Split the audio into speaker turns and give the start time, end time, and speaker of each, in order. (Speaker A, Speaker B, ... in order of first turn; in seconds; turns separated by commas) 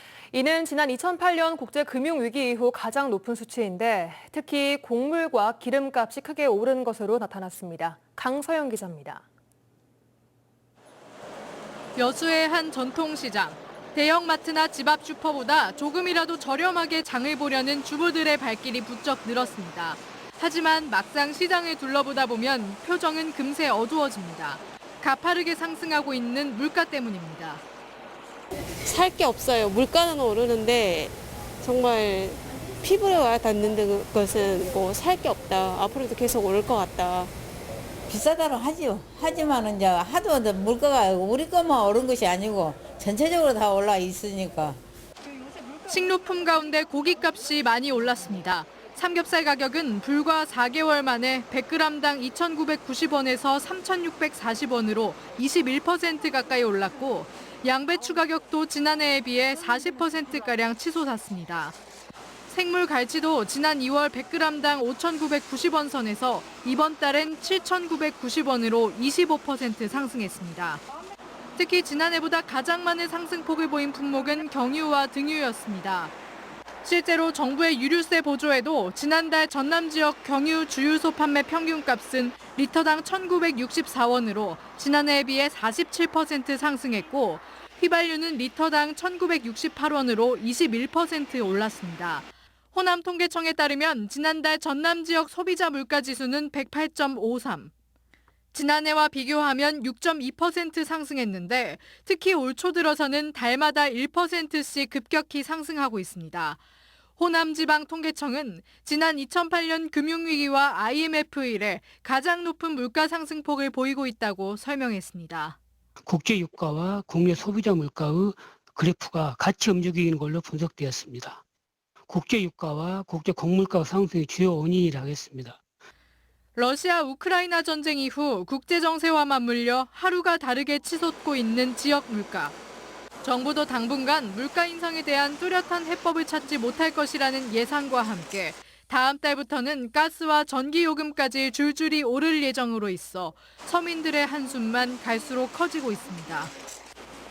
Speaker A: 0.3-9.2, Speaker B: 12.0-27.6, Speaker C: 28.8-37.3, Speaker D: 38.1-44.8, Speaker B: 45.9-61.8, Speaker B: 62.5-70.8, Speaker B: 71.6-76.1, Speaker B: 76.8-97.7, Speaker B: 98.5-106.6, Speaker B: 107.2-115.6, Speaker E: 116.1-121.4, Speaker E: 122.1-125.6, Speaker B: 126.5-132.6, Speaker B: 133.2-146.5